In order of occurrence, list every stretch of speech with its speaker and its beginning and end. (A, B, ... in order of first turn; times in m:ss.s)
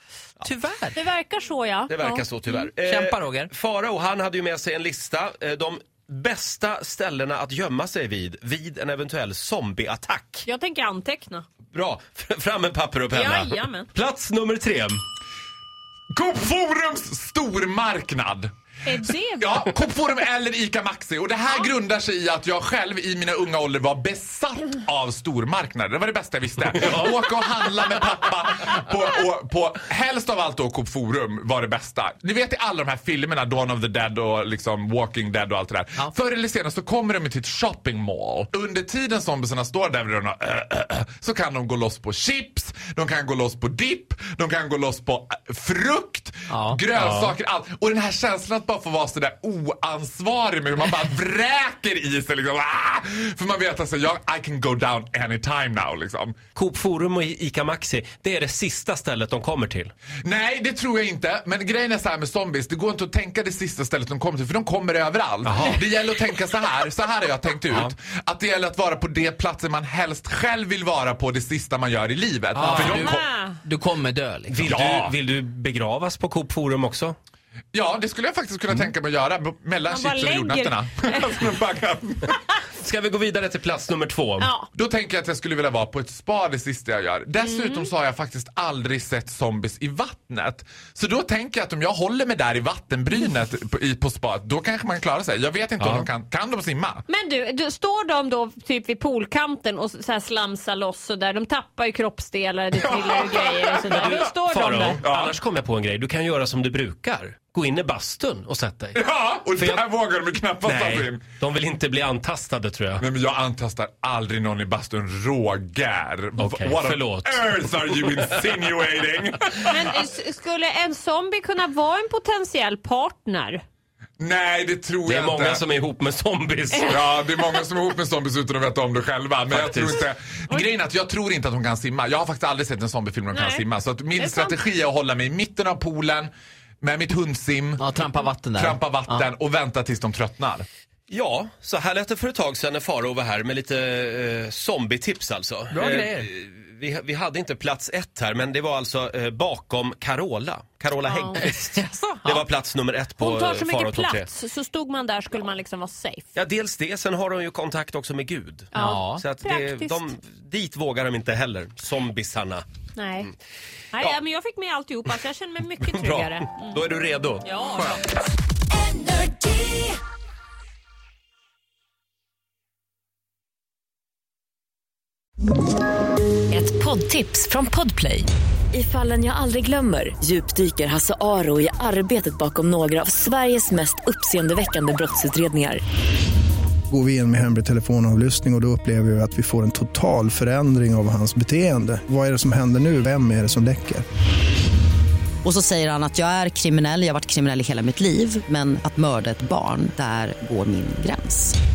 0:00.4-0:01.0 A
0:00.9-0:02.6 B
0:01.9-0:10.5 C
0:02.9-0:03.5 A
0:10.4-0:11.4 B
0:11.7-0:15.0 C
0:13.1-0:13.9 B
0:16.1-0:18.5 D
0:18.8-0:19.6 B
0:19.4-0:56.4 D
0:46.5-0:46.8 A
0:56.5-0:59.9 C
1:00.2-1:13.2 D
1:05.4-1:05.8 C
1:12.5-1:13.0 A
1:12.8-1:13.6 B
1:12.8-1:13.1 C
1:13.6-1:14.7 A
1:14.5-1:17.2 C
1:14.6-1:15.1 D
1:17.7-1:22.4 D
1:19.9-1:21.4 B
1:22.8-1:24.5 C
1:24.4-1:24.7 B
1:24.7-1:37.0 D
1:27.4-1:27.9 B
1:35.8-1:36.1 C
1:37.1-1:45.0 B
1:42.7-1:44.2 D
1:43.8-1:49.0 C
1:45.0-1:45.3 D
1:48.9-1:51.2 D
1:49.6-1:49.8 C
1:50.6-1:53.0 C
1:53.0-2:00.1 D
1:56.4-1:58.4 C
1:59.7-2:03.6 B
2:04.2-2:05.6 D
2:05.0-2:06.9 C
2:06.8-2:07.3 B
2:06.8-2:16.3 D
2:09.5-2:10.0 C
2:13.3-2:14.6 B
2:16.8-2:18.0 D
2:17.8-2:19.3 A
2:18.5-2:20.6 D
2:21.1-2:34.3 C
2:25.7-2:26.2 A
2:31.0-2:31.4 B
2:33.2-2:36.3 B
2:36.3-2:42.6 C
2:38.7-2:40.0 B
2:38.9-2:39.2 A
2:43.0-2:43.3 B
2:43.9-2:46.8 B
2:45.8-2:47.4 C
2:47.4-2:48.0 B
2:48.8-2:49.8 E
2:56.5-3:05.8 E
3:06.9-3:14.0 F
3:15.4-3:21.6 G